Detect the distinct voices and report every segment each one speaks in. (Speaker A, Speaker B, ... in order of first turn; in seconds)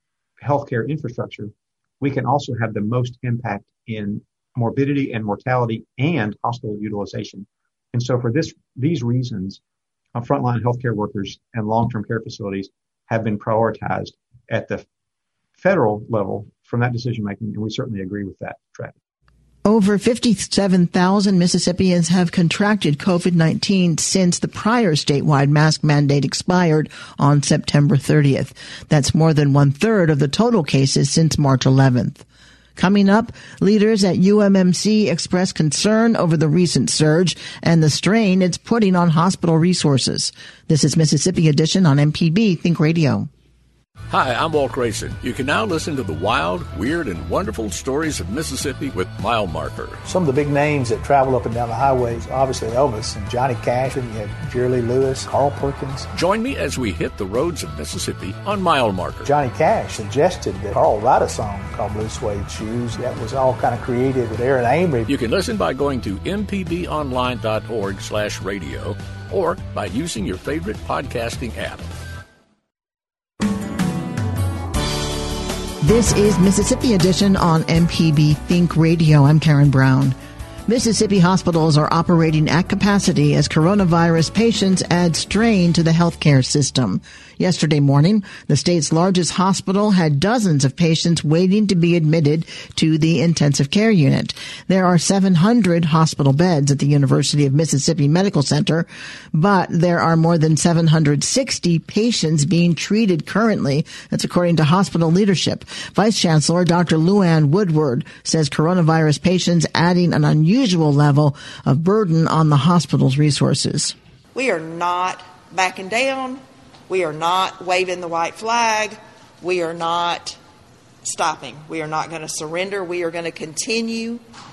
Speaker A: 0.4-9.6, 10.2-14.8, 15.6-18.9
Speaker B: 19.6-32.2, 32.8-43.3, 75.8-114.0
Speaker C: 44.1-50.0, 56.1-59.3, 65.1-71.9
Speaker D: 50.1-56.1, 59.2-65.1
Speaker E: 114.3-120.4, 121.0-124.2